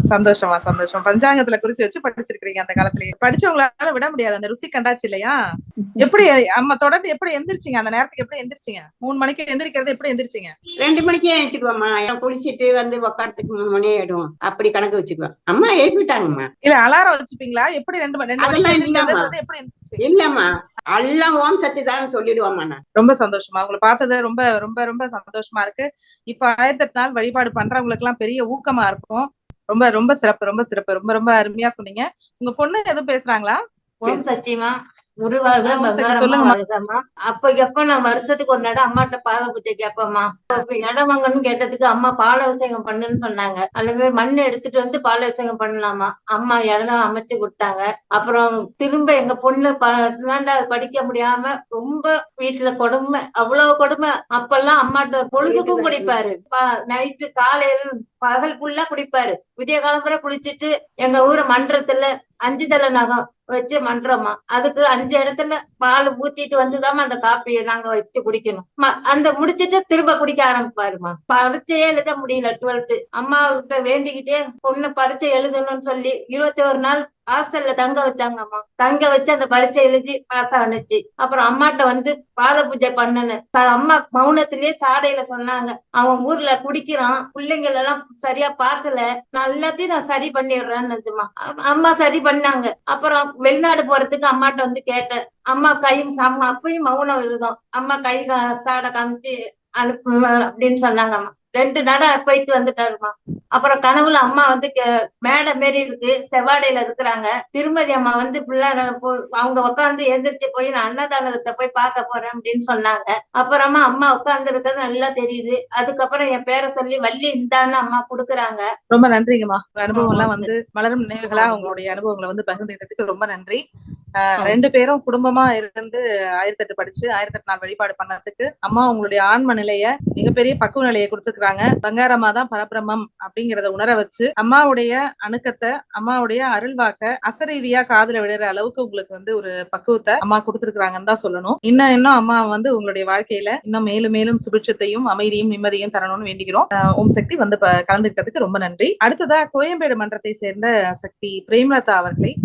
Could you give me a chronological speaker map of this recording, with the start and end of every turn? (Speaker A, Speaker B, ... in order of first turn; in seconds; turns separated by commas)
Speaker A: 0.1-5.3, Speaker A: 6.0-10.5, Speaker B: 10.8-16.5, Speaker A: 16.6-20.0, Speaker B: 18.4-19.3, Speaker B: 20.0-22.8, Speaker A: 22.9-34.2, Speaker C: 34.0-118.6, Speaker A: 35.6-36.6, Speaker B: 55.4-56.2, Speaker A: 118.9-123.6, Speaker B: 120.0-120.3, Speaker B: 121.3-121.8, Speaker A: 124.2-152.3